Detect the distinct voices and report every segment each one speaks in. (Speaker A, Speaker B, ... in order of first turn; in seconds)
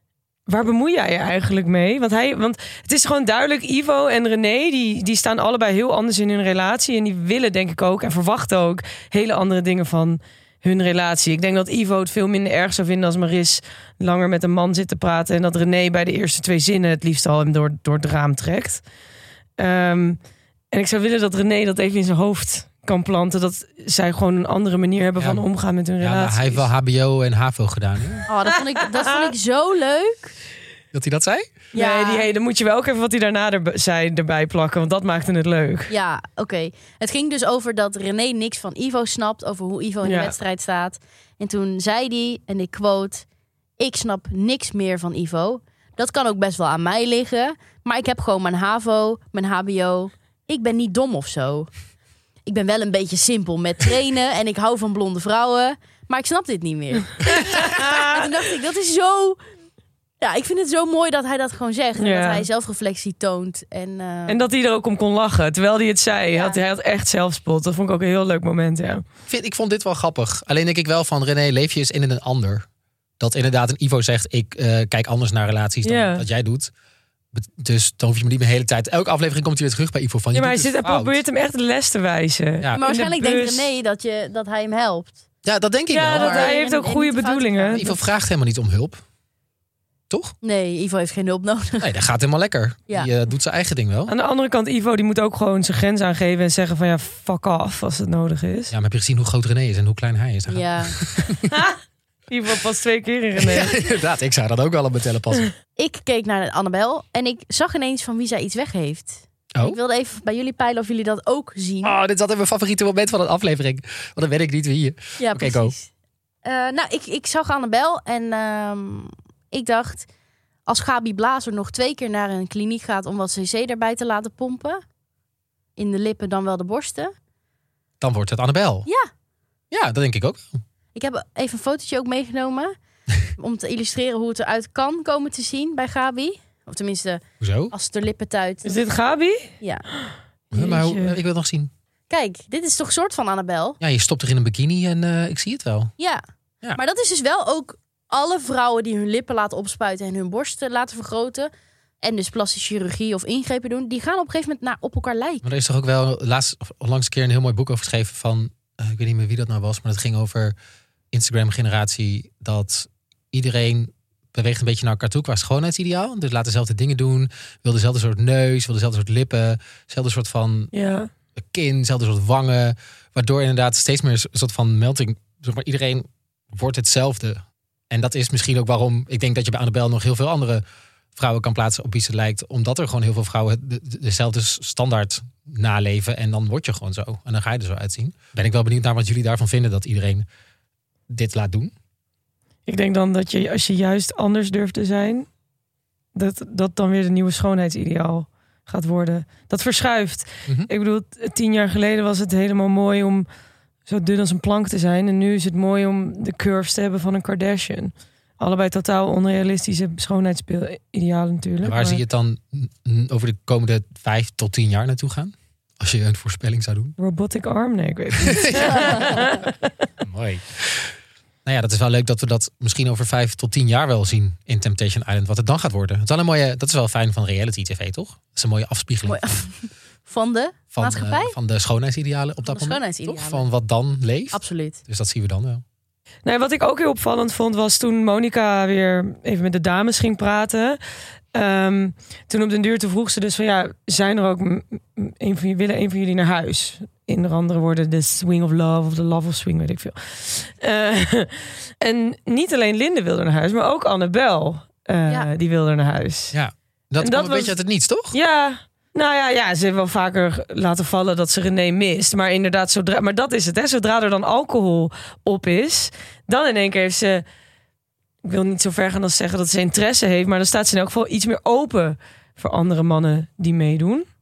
Speaker A: 0.5-18.8, 19.6-20.2, 20.7-26.6, 29.0-29.3, 31.7-35.9, 40.0-40.4, 57.3-58.3, 62.0-62.5, 64.3-69.0, 75.8-76.2, 80.3-83.7, 85.9-87.9, 94.1-98.7, 101.5-101.8, 102.3-103.8, 138.6-139.5, 140.1-141.2, 170.7-171.1, 192.7-195.3, 196.1-203.3, 203.9-212.0, 217.0-219.7, 236.2-240.8, 241.3-256.4, 257.0-257.5, 258.1-267.2, 268.2-274.1
Speaker B: 25.2-25.4, 26.0-28.2, 30.9-31.5, 69.3-72.7, 73.2-76.7, 77.3-81.2, 85.5-86.5, 87.7-89.0, 90.1-90.3, 91.8-94.1, 98.7-101.5, 103.4-105.5, 111.8-115.7, 128.0-128.9, 129.7-130.6, 137.4-137.7, 140.5-141.7, 143.8-145.9, 155.4-160.6, 161.1-170.7, 171.4-180.6, 181.2-190.2, 191.1-191.7, 211.6-217.0, 218.2-219.3, 220.0-229.2, 230.7-235.6, 256.3-258.2
Speaker C: 28.3-30.4, 31.7-32.3, 35.9-43.2, 43.8-51.7, 52.5-59.4, 60.2-64.4, 82.8-85.2, 86.1-88.0, 90.4-91.9, 100.5-101.0, 105.8-111.9, 115.2-115.9, 116.4-120.1, 120.7-124.8, 125.8-127.1, 130.9-132.7, 133.3-138.8, 142.1-143.8, 146.0-146.2, 146.7-155.4, 229.1-231.3, 232.5-233.4, 234.3-234.8